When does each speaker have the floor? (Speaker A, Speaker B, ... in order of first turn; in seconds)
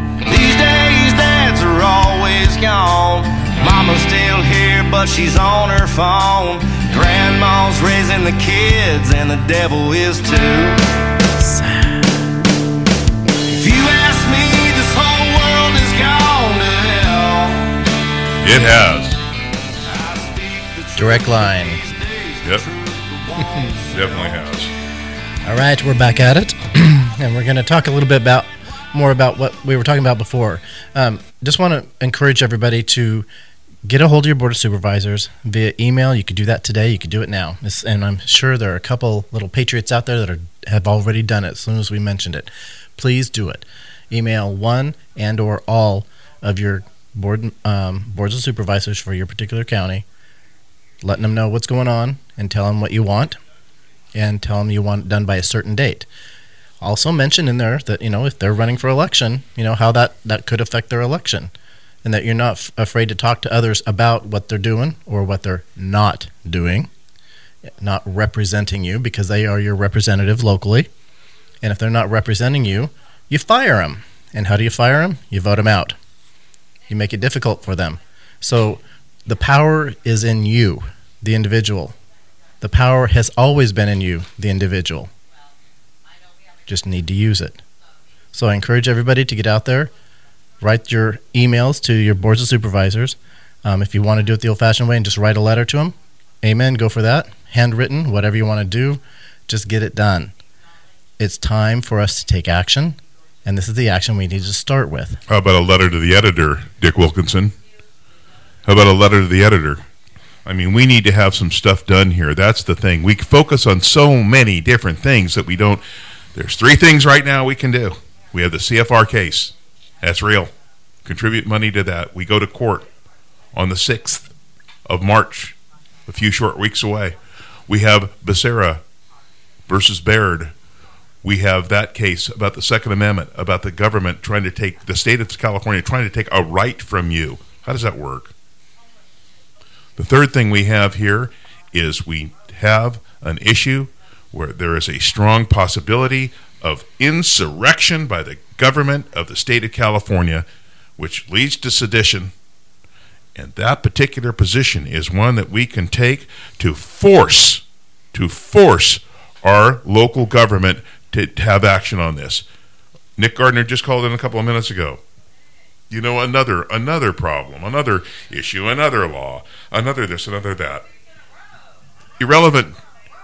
Speaker A: 0.2-10.8, 13.5-17.8, 18.4-18.7, 19.8-24.4
Speaker B: 11.4-12.1, 20.9-21.8, 25.4-33.3, 33.9-50.0, 51.0-53.4, 54.1-56.1, 56.8-61.5, 62.0-66.9, 67.8-70.9, 71.6-76.0, 76.9-82.0, 82.6-85.1, 86.7-87.6, 88.3-89.9, 90.6-100.3, 101.2-105.2
Speaker C: 18.4-19.2, 23.9-24.7, 105.3-107.5, 108.6-109.8, 110.5-115.8, 116.3-120.5, 121.0-122.9, 123.5-124.3, 124.9-125.5, 126.1-127.2, 127.7-128.8, 129.7-130.5, 131.2-138.3, 140.0-150.4, 151.0-152.3, 153.3-162.4, 163.2-165.0, 165.9-170.9, 172.2-172.8